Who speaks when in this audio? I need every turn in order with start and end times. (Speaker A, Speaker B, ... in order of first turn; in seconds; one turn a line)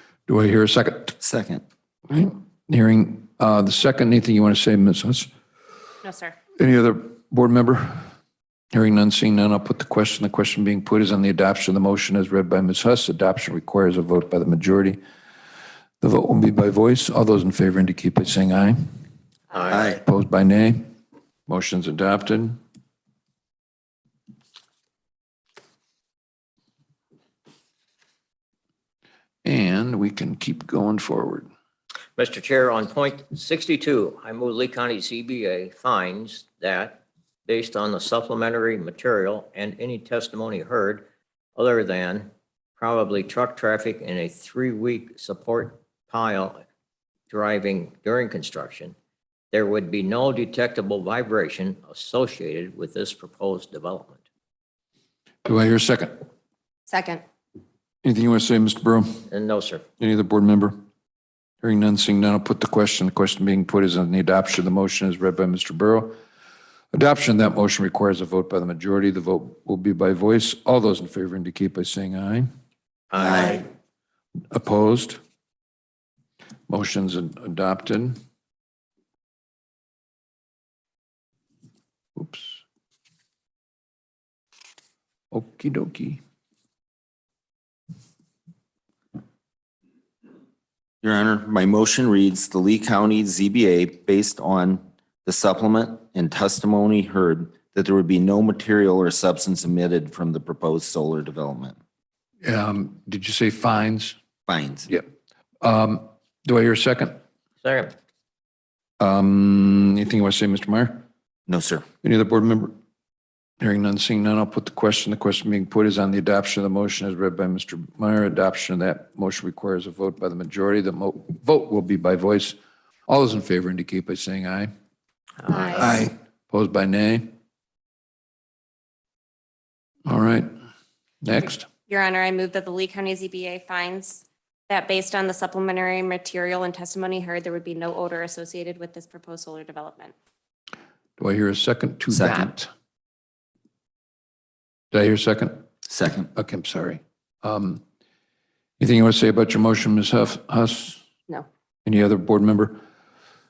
Speaker A: 0.3-1.1
Speaker B: 1.2-1.6
Speaker A: 2.1-5.3
Speaker C: 6.0-6.3
Speaker A: 6.6-8.1
Speaker A: 8.7-15.0
Speaker A: 16.0-18.9
Speaker D: 19.5-20.0
Speaker B: 19.7-20.0
Speaker A: 20.0-20.9
Speaker A: 21.5-22.6
Speaker A: 29.4-31.5
Speaker D: 32.1-41.0
Speaker D: 41.5-46.6
Speaker D: 47.3-48.9
Speaker D: 49.5-54.2
Speaker A: 55.4-56.2
Speaker C: 56.9-57.2
Speaker A: 58.0-59.2
Speaker D: 59.3-59.8
Speaker A: 60.0-60.8
Speaker A: 61.6-66.1
Speaker A: 66.9-72.5
Speaker D: 73.1-73.6
Speaker B: 73.2-73.6
Speaker A: 74.5-75.2
Speaker A: 76.7-78.2
Speaker A: 82.2-82.6
Speaker A: 85.3-86.2
Speaker B: 91.0-101.8
Speaker A: 102.4-104.2
Speaker B: 104.5-104.9
Speaker A: 105.6-107.2
Speaker D: 107.6-107.9
Speaker A: 109.0-111.0
Speaker B: 111.5-111.8
Speaker A: 112.0-112.7
Speaker A: 113.6-122.5
Speaker A: 123.1-124.7
Speaker D: 125.4-126.1
Speaker C: 125.5-126.0
Speaker A: 125.8-127.3
Speaker A: 130.1-130.5
Speaker A: 131.2-131.7
Speaker C: 131.9-140.1
Speaker A: 141.2-142.7
Speaker B: 142.1-142.5
Speaker A: 144.9-145.6
Speaker B: 145.8-146.3
Speaker A: 146.3-147.8
Speaker A: 148.8-151.0
Speaker A: 151.8-152.8